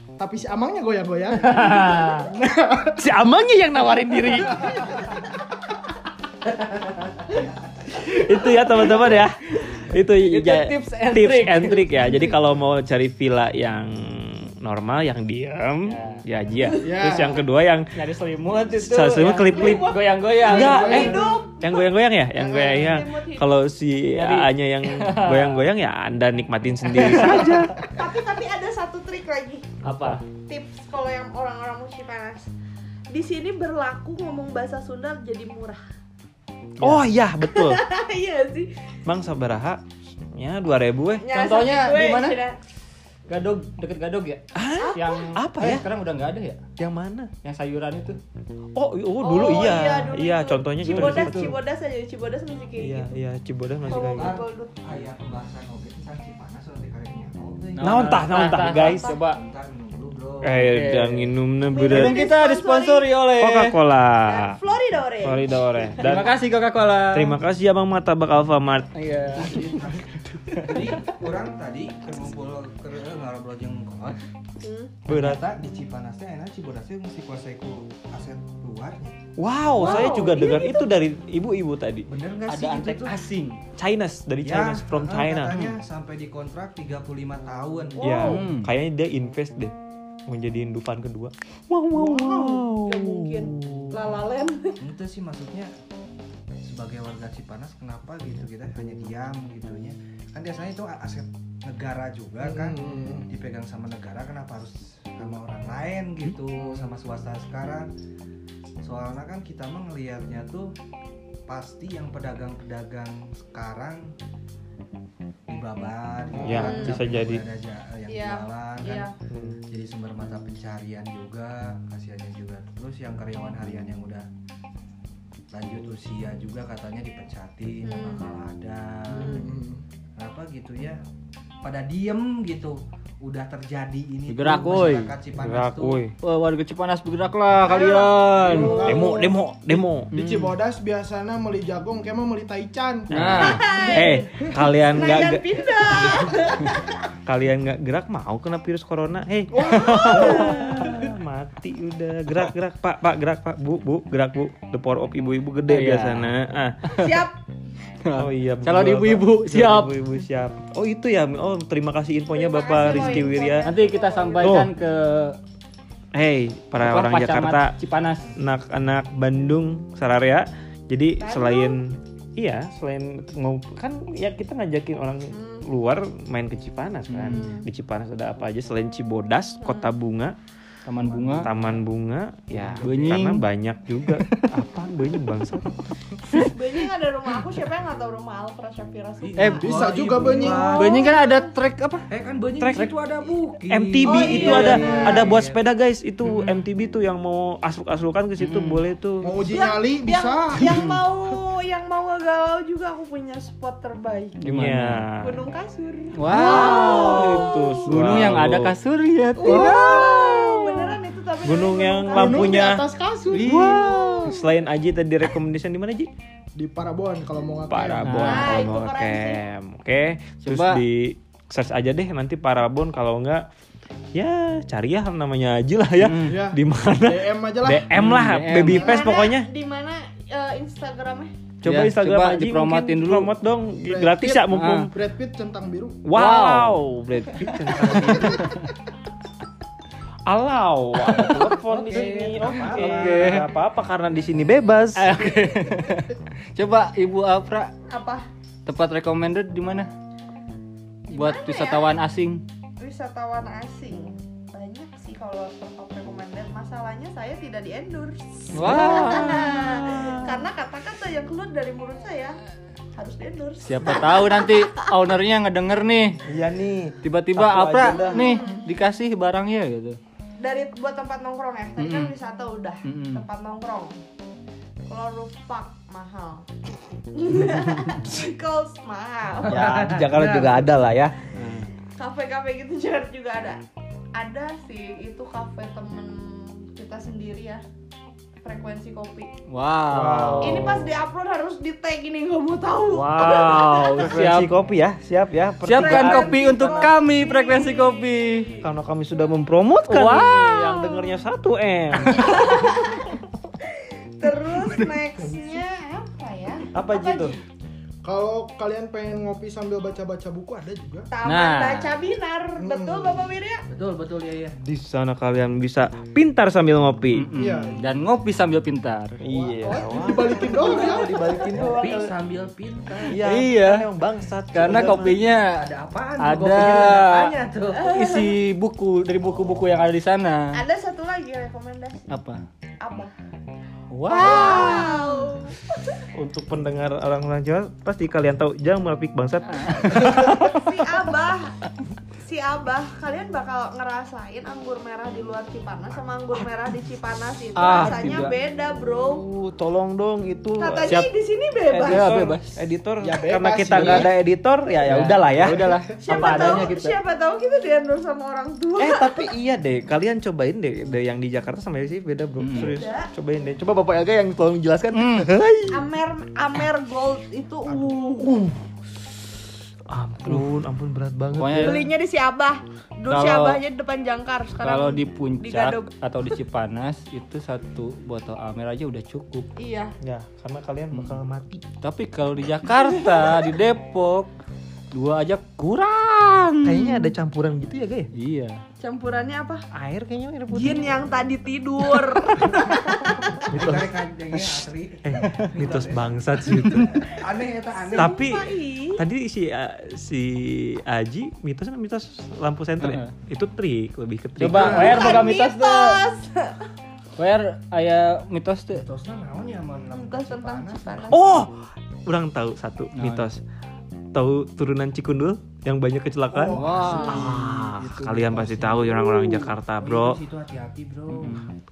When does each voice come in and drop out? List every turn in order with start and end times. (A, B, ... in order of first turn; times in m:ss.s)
0:00.2-0:03.1 A
0:01.3-0:02.3 B
0:03.0-0:04.9 C
0:07.9-0:17.9 C
0:10.3-0:12.1 B
0:15.9-0:16.2 B
0:16.8-0:17.4 A
0:17.9-0:21.1 B
0:18.7-0:27.9 C
0:19.5-0:23.5 D
0:20.4-0:21.4 A
0:24.1-0:25.6 B
0:26.9-0:27.6 B
0:27.9-0:29.7 D
0:29.8-0:30.2 B
0:29.9-0:30.2 C
0:30.5-0:32.5 D
0:33.1-0:35.8 D
0:36.8-0:37.8 C
0:37.5-0:38.7 D
0:39.1-0:41.3 C
0:41.2-0:42.6 D
0:41.3-0:42.4 B
0:43.3-0:46.6 B
0:44.5-0:45.9 C
0:44.8-0:45.4 D
0:46.8-0:47.3 C
0:47.4-0:48.2 B
0:48.7-0:51.6 C
0:49.2-0:53.1 D
0:50.8-0:51.6 B
0:52.8-0:54.4 C
0:53.9-0:54.7 D
0:53.9-1:00.7 E
0:57.7-0:59.4 B
0:57.8-0:59.2 C
1:00.4-1:02.3 C
1:00.6-1:03.8 B
1:01.7-1:03.1 D
1:03.4-1:04.6 C
1:04.2-1:05.9 D
1:05.2-1:06.4 C
1:06.0-1:07.4 B
1:07.1-1:08.9 C
1:08.9-1:09.8 B
1:09.4-1:14.2 E
1:10.5-1:10.9 B
1:14.6-1:14.9 D
1:15.1-1:15.4 C
1:15.1-1:19.2 E
1:19.4-1:22.1 C
1:19.8-1:20.9 D
1:22.1-1:23.2 E
1:22.5-1:23.6 B
1:23.8-1:25.6 C
1:24.4-1:28.3 E
1:28.0-1:28.4 D
1:28.0-1:29.7 C
1:28.2-1:28.7 B
1:30.3-1:34.0 C
1:32.7-1:34.8 D
1:34.8-1:35.7 E
1:36.6-1:47.9 E
1:42.4-1:43.3 A
1:46.6-1:46.8 A
1:48.8-1:50.7 E
1:51.5-1:54.1 E
1:55.5-1:59.1 E
1:56.4-1:57.4 C
1:56.6-1:57.0 D
1:58.1-1:59.1 D
1:59.3-1:59.6 C
1:59.7-2:04.3 E
2:05.5-2:09.6 E
2:07.8-2:08.3 D
2:09.1-2:09.8 A
2:09.2-2:09.5 D
2:10.2-2:11.0 E
2:11.6-2:16.0 E
2:14.3-2:15.1 B
2:15.4-2:16.2 C
2:16.2-2:18.9 B
2:17.6-2:19.2 D
2:17.6-2:24.5 A
2:18.7-2:20.1 C
2:20.1-2:20.6 B
2:23.1-2:26.3 C
2:23.1-2:23.6 B
2:23.3-2:24.3 D
2:24.9-2:27.1 D
2:27.3-2:37.0 C
2:29.6-2:30.7 A
2:29.7-2:31.0 B
2:29.8-2:30.8 D
2:35.7-2:36.3 B
2:36.9-2:37.4 D
2:38.0-2:40.0 B
2:38.1-2:43.7 C
2:42.3-2:44.7 D
2:42.8-2:45.4 B
2:44.4-2:44.7 C
2:46.1-2:47.8 C
2:46.8-2:48.3 B
2:48.4-3:00.4 C
2:51.2-2:51.8 D
2:55.3-2:55.6 D
2:57.1-2:57.6 B
2:57.3-2:57.6 D
2:59.6-2:59.9 D
3:00.9-3:01.5 B
3:01.3-3:05.9 C
3:02.6-3:02.9 E
3:02.8-3:03.4 B
3:04.1-3:04.5 B
3:06.3-3:11.5 D
3:09.2-3:11.1 E
3:09.4-3:10.6 A
3:10.7-3:12.1 B
3:12.1-3:15.6 E
3:12.6-3:12.9 C
3:13.7-3:19.5 C
3:14.0-3:15.2 D
3:14.2-3:15.3 B
3:14.4-3:15.3 A
3:16.3-3:16.5 B
3:18.4-3:18.8 B
3:19.2-3:20.8 A
3:19.4-3:24.4 D
3:24.4-3:25.1 B
3:24.4-3:25.4 C
3:25.2-3:27.3 D
3:26.1-3:30.9 B
3:26.3-3:28.8 C
3:29.4-3:32.6 D
3:29.4-3:30.3 A
3:31.4-3:32.9 C
3:32.1-3:34.4 A
3:33.3-3:34.4 B
3:33.4-3:36.1 C
3:36.6-3:38.3 A
3:37.7-3:43.5 C
3:38.0-3:38.7 B
3:38.3-3:39.4 D
3:40.4-3:40.8 B
3:44.1-3:49.5 C
3:46.0-3:46.4 B
3:46.3-3:47.9 A
3:47.9-3:48.9 B
3:48.7-3:49.0 A
3:48.7-3:51.3 D
3:51.6-3:54.9 C
3:51.6-3:53.3 B
3:53.8-3:56.0 A
3:54.5-3:54.9 B
3:56.0-3:58.6 C
3:56.1-3:56.8 B
3:57.8-3:58.4 A
3:57.8-3:58.5 B
4:00.3-4:05.2 C
4:01.1-4:01.5 B
4:01.5-4:03.5 E
4:02.7-4:03.4 B
4:04.9-4:07.7 B
4:07.9-4:08.3 D
4:08.6-4:09.9 B
4:11.1-4:12.0 D
4:11.1-4:12.4 B
4:12.8-4:22.4 D
4:18.5-4:19.9 B
4:18.6-4:20.4 C
4:22.9-4:24.9 D
4:23.6-4:26.2 B
4:26.3-4:28.4 C
4:27.0-4:30.0 B
4:27.8-4:28.6 D
4:30.4-4:34.0 D
4:31.8-4:32.1 B
4:32.8-4:33.2 B
4:34.9-4:36.5 D
4:37.1-4:39.6 D
4:39.5-4:41.3 C
4:40.1-4:40.7 A
4:41.3-4:41.6 B
4:42.0-4:47.6 D
4:48.4-4:49.3 D
4:49.5-4:50.8 B
4:49.9-4:50.6 A
4:50.3-4:50.7 C
4:50.4-4:54.2 D
4:52.9-4:54.6 B
4:54.0-4:56.9 C
4:55.6-4:58.5 B
4:55.7-4:58.7 D
4:58.6-5:02.5 C
4:59.8-5:01.1 B
5:01.9-5:02.3 B
5:02.1-5:07.4 D
5:05.1-5:05.4 A
5:06.7-5:07.4 C
5:08.0-5:11.1 A
5:11.1-5:13.6 D
5:11.2-5:12.0 B
5:12.6-5:13.3 A
5:13.7-5:14.6 E
5:14.6-5:17.3 C
5:17.1-5:19.2 B
5:17.4-5:17.9 A
5:19.2-5:22.1 C
5:19.3-5:21.4 A
5:20.0-5:23.2 E
5:23.1-5:25.2 C
5:23.1-5:23.9 B
5:24.5-5:25.6 B
5:24.6-5:28.0 E
5:26.2-5:27.3 B
5:27.7-5:28.4 D
5:27.9-5:30.6 B
5:30.5-5:32.1 D
5:32.1-5:32.4 B
5:32.8-5:33.1 D
5:33.9-5:35.2 B
5:34.1-5:36.1 D
5:36.1-5:40.5 C
5:39.5-5:40.7 B
5:39.6-5:41.5 D
5:42.2-5:49.2 D
5:47.6-5:48.4 B
5:47.6-5:48.3 C
5:49.1-5:51.0 C
5:50.6-5:52.1 D
5:50.8-5:51.1 B
5:51.7-5:56.7 C
5:51.9-5:52.6 B
5:53.0-5:54.1 A
5:53.7-5:54.1 B
5:54.8-5:57.0 B
5:56.0-5:59.3 D
5:58.8-6:05.9 C
6:02.4-6:02.7 B
6:02.5-6:03.1 D
6:04.9-6:05.3 B
6:05.7-6:08.4 D
6:07.7-6:08.6 C
6:09.9-6:11.8 C
6:11.4-6:11.9 B
6:11.6-6:15.9 D
6:13.1-6:13.6 B
6:14.6-6:19.5 B
6:19.6-6:19.9 D
6:20.0-6:21.6 C
6:21.8-6:24.3 B
6:24.9-6:27.1 B
6:26.6-6:28.1 C
6:28.1-6:28.6 B
6:28.8-6:29.6 D
6:29.7-6:31.1 C
6:30.5-6:33.5 D
6:32.3-6:32.6 C
6:33.5-6:33.9 C
6:33.5-6:38.3 E
6:35.1-6:37.2 C
6:35.2-6:35.5 B
6:37.8-6:39.0 D
6:38.0-6:45.2 C
6:42.8-6:43.1 B
6:44.4-6:46.0 B
6:44.5-6:46.7 D
6:44.7-6:44.9 A
6:47.2-6:48.8 B
6:48.7-6:51.4 E
6:49.9-6:51.4 D
6:51.1-6:53.4 C
6:52.9-6:53.2 B
6:54.1-7:00.2 C
6:56.3-6:59.1 A
6:56.5-6:57.2 B
6:56.8-6:57.4 D
6:59.8-7:01.4 E
7:01.2-7:01.5 B